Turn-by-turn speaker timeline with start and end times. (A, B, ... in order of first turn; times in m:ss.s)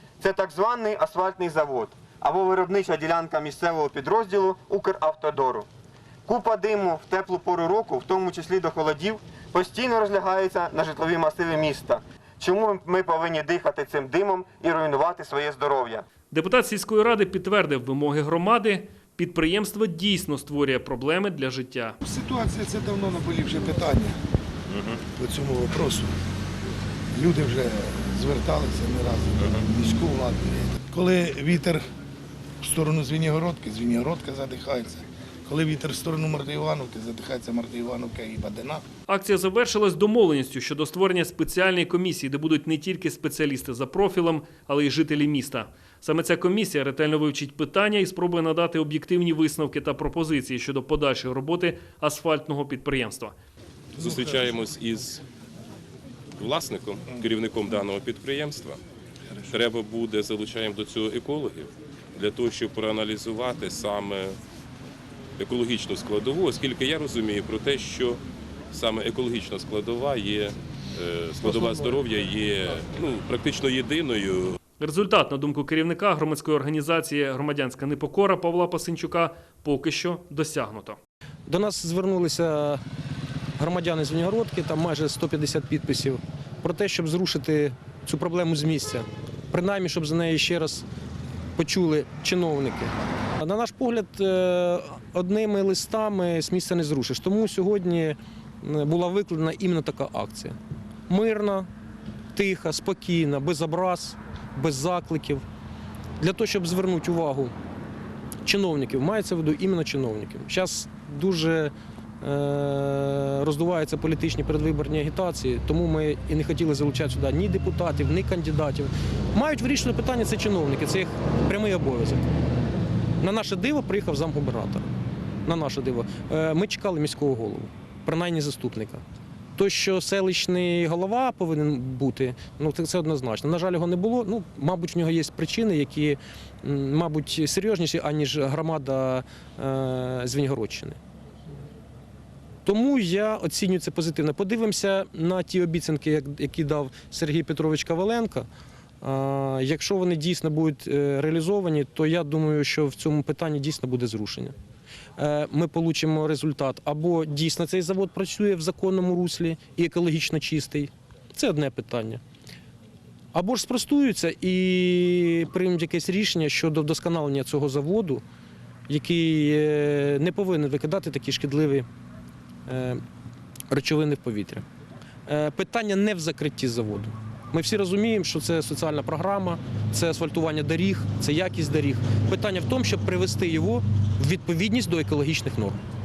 0:00.2-0:05.7 A
0:06.2-0:16.0 A
0:16.3-0:22.0 B
0:22.0-0:24.2 C
0:24.7-0:25.0 D
0:25.2-0:26.1 C
0:27.1-0:31.8 C
0:32.6-0:38.8 C
0:39.1-0:53.3 B
0:54.0-0:55.2 D
0:54.0-0:54.5 C
0:56.4-0:58.8 D
0:59.5-1:04.4 D
1:05.4-1:14.6 D
1:11.4-1:11.9 C
1:14.8-1:21.0 B
1:21.5-1:22.8 E
1:23.6-1:30.8 E
1:31.6-1:40.6 E
1:41.1-1:41.7 E
1:42.3-1:45.4 E
1:46.2-1:47.5 E
1:48.4-2:02.3 E
2:03.2-2:04.9 E
2:05.4-2:09.0 E
2:09.6-2:21.0 E
2:22.6-2:28.5 E
2:29.0-2:34.5 E
2:35.2-2:42.2 E
2:43.3-2:48.2 E
2:48.9-2:51.8 E
2:52.7-2:53.0 E
2:53.7-2:54.6 E
2:55.3-3:05.8 E